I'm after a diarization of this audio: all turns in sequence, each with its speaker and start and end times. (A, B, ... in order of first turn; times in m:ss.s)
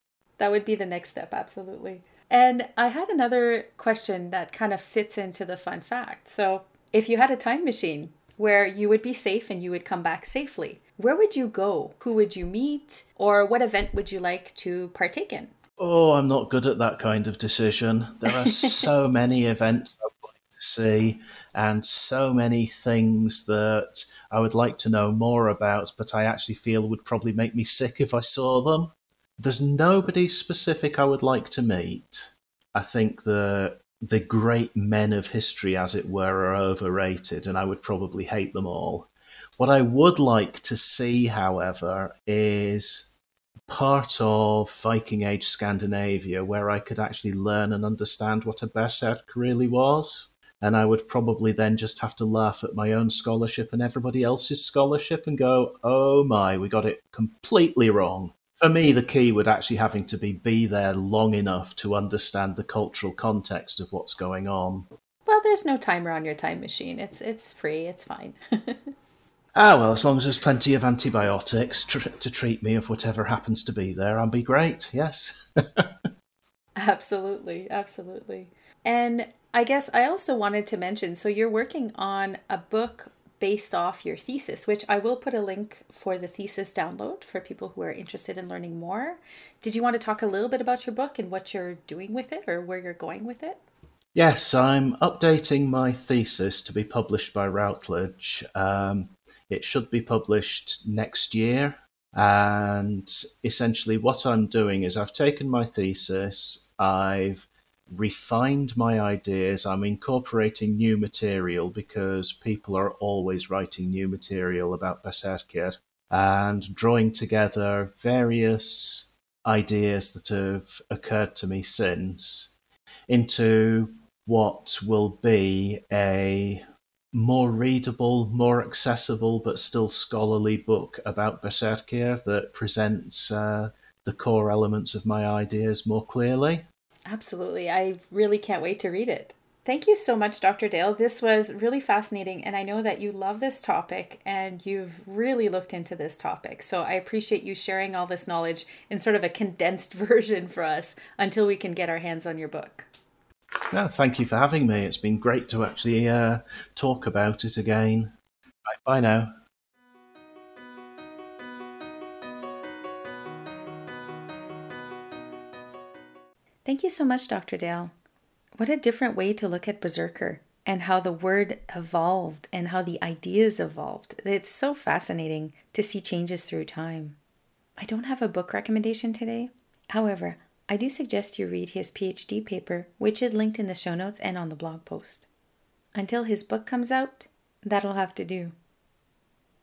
0:00.4-0:15.5 A
0:15.8-0:43.2 B
0:18.3-0:18.7 A
0:43.7-1:04.9 B
1:05.2-1:08.9 A
1:09.5-1:15.9 B
1:16.8-1:33.6 A
1:34.1-2:02.5 B
2:03.1-2:16.6 B
2:17.1-2:32.9 A
2:33.7-2:38.1 B
2:38.7-2:39.3 B
2:46.6-2:47.9 A
2:48.6-2:57.2 A
2:57.8-3:05.3 A
3:05.9-3:08.5 A